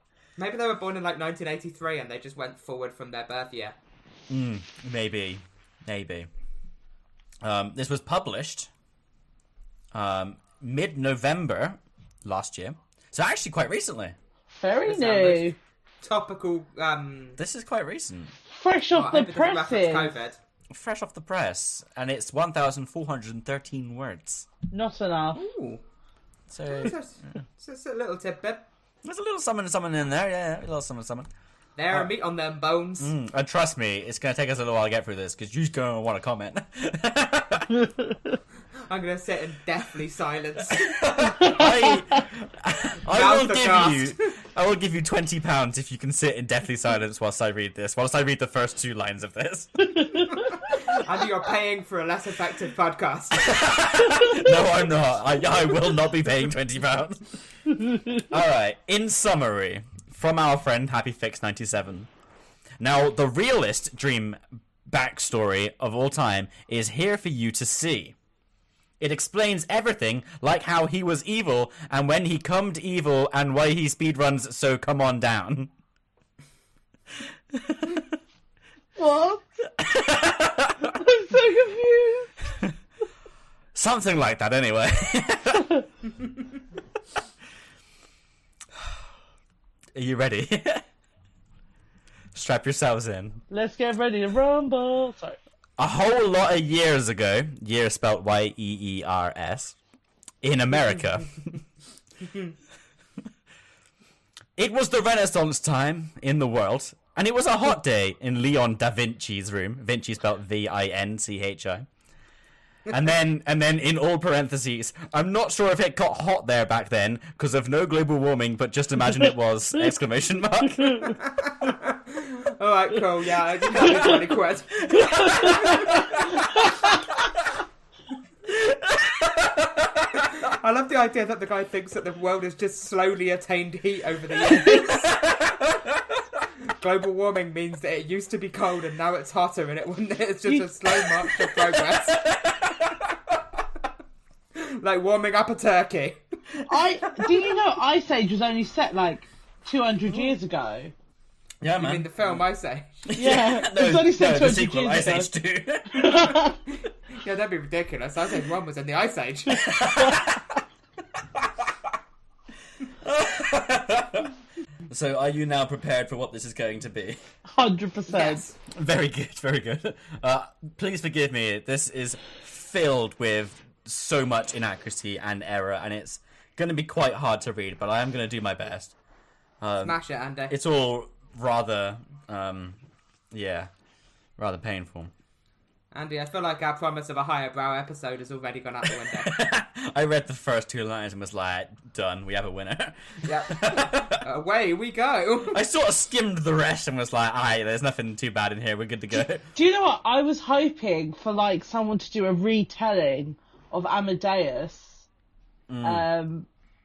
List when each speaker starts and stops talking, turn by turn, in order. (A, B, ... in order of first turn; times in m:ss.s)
0:00.4-0:03.7 A
0:04.3-0:06.3 B
0:07.4-0:08.7 B
0:09.9-0:14.2 B
0:14.5-0:15.6 C
0:14.8-0:15.5 A
0:16.0-0:17.4 A
0:17.4-0:18.3 B
0:18.5-0:20.1 C
0:18.9-0:20.4 A
0:20.7-0:24.5 B
0:24.7-0:25.4 C
0:25.3-0:25.8 A
0:26.5-0:27.4 B
0:26.6-0:28.7 A
0:29.0-0:31.3 B
0:31.8-0:33.1 A
0:33.0-0:37.9 B
0:38.9-0:41.0 A
0:40.7-0:49.9 B
0:43.1-0:44.3 A
0:50.4-0:53.6 A
0:53.3-0:57.2 B
0:58.1-1:02.1 B
1:02.8-1:08.1 B
1:09.0-1:15.7 B
1:17.5-1:18.0 B
1:19.0-1:19.4 C
1:19.8-1:21.0 B
1:21.0-1:22.3 C
1:23.7-1:25.8 B
1:29.9-1:30.8 B
1:32.3-1:33.4 B
1:33.5-1:35.4 C
1:35.8-1:39.8 B
1:40.4-1:41.6 B
1:44.6-1:51.8 B
1:52.9-2:01.2 B
2:01.1-2:06.1 A
2:04.9-2:06.3 B
2:08.5-2:10.1 B
2:10.2-2:15.1 A
2:15.0-2:16.1 B
2:16.8-2:22.2 A
2:21.8-2:23.1 B
2:24.5-2:26.2 A
2:26.6-2:30.9 C
2:31.6-2:32.4 B
2:31.8-2:33.1 A
2:33.1-2:36.2 B
2:33.1-2:35.3 C
2:35.9-2:36.6 C
2:37.1-2:39.8 A
2:39.5-2:40.5 B
2:41.4-2:41.6 B
2:43.0-2:44.3 B
2:44.9-2:47.2 B
2:47.5-2:48.4 C
2:48.1-2:48.6 A
2:48.7-2:58.9 B
2:59.6-3:00.0 B
2:59.8-3:00.5 A
3:00.5-3:02.8 B
3:03.3-3:03.7 B
3:04.4-3:05.1 B
3:05.9-3:09.3 A
3:09.1-3:14.2 B
3:13.2-3:15.6 A
3:15.5-3:19.4 B
3:19.5-3:25.0 C
3:25.7-3:26.0 B
3:25.8-3:26.5 C